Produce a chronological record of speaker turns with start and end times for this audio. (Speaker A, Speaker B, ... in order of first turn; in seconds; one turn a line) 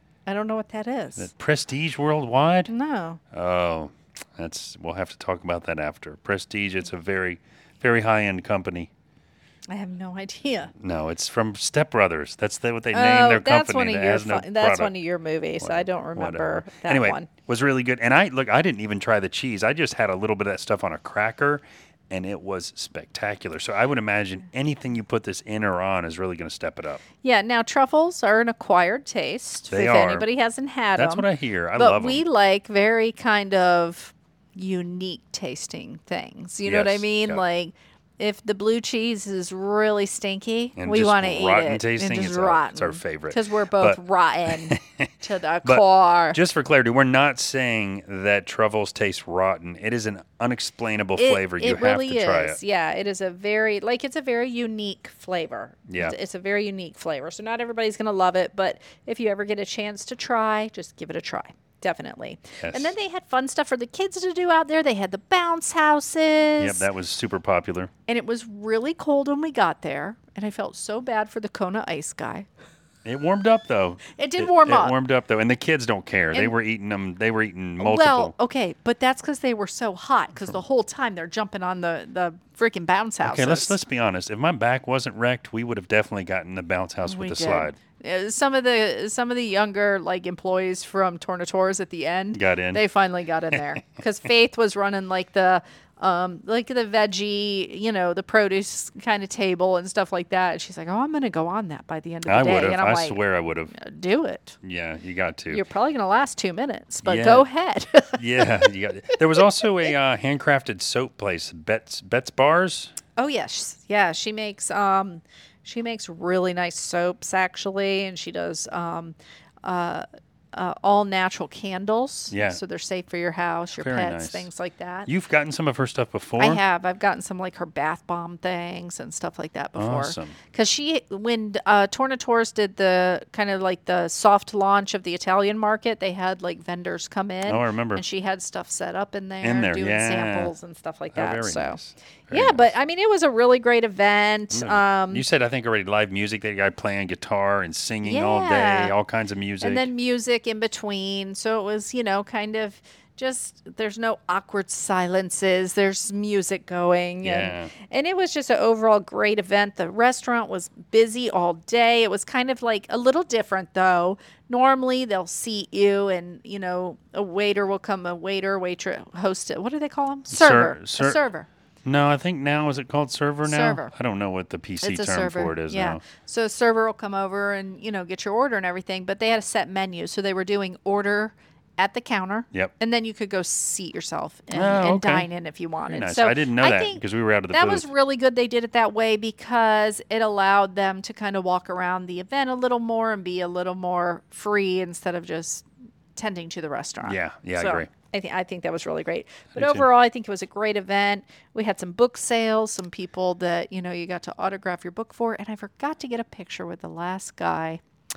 Speaker A: 0.3-1.3
Speaker B: 1.2-2.7
Speaker A: 2.7-3.2
Speaker B: 3.3-8.9
Speaker A: 9.7-10.7
Speaker B: 10.8-14.9
Speaker A: 12.9-17.3
Speaker B: 15.6-27.0
Speaker A: 27.2-46.4
Speaker B: 29.7-30.3
Speaker B: 30.9-32.2
Speaker B: 36.6-37.4
Speaker B: 40.8-45.1
Speaker B: 45.6-52.6
Speaker A: 51.2-66.9
Speaker B: 55.9-56.1
Speaker B: 62.6-62.9
Speaker B: 66.6-67.9
Speaker A: 68.1-72.5
Speaker B: 73.0-78.3
Speaker A: 74.2-74.9
Speaker A: 77.8-83.8
Speaker B: 83.2-87.8
Speaker A: 87.0-104.6
Speaker B: 92.3-92.8
Speaker B: 102.2-103.7
Speaker B: 104.6-105.6
Speaker A: 105.5-109.4
Speaker B: 107.0-107.5
Speaker B: 108.2-113.0
Speaker A: 113.2-125.1
Speaker B: 122.3-122.6
Speaker B: 123.8-124.5
Speaker B: 125.0-126.6
Speaker A: 126.4-141.8
Speaker B: 129.8-130.4
Speaker B: 137.4-138.0
Speaker B: 139.4-140.5
Speaker B: 141.1-142.7
Speaker A: 142.3-145.2
Speaker B: 144.5-149.9
Speaker A: 148.0-148.9
Speaker A: 149.6-171.5
Speaker B: 157.2-157.7
Speaker B: 170.3-171.2
Speaker B: 171.8-176.0
Speaker A: 173.4-173.9
Speaker A: 174.8-207.8
Speaker B: 184.5-185.3
Speaker B: 185.9-187.9
Speaker B: 197.0-197.9
Speaker B: 199.5-199.9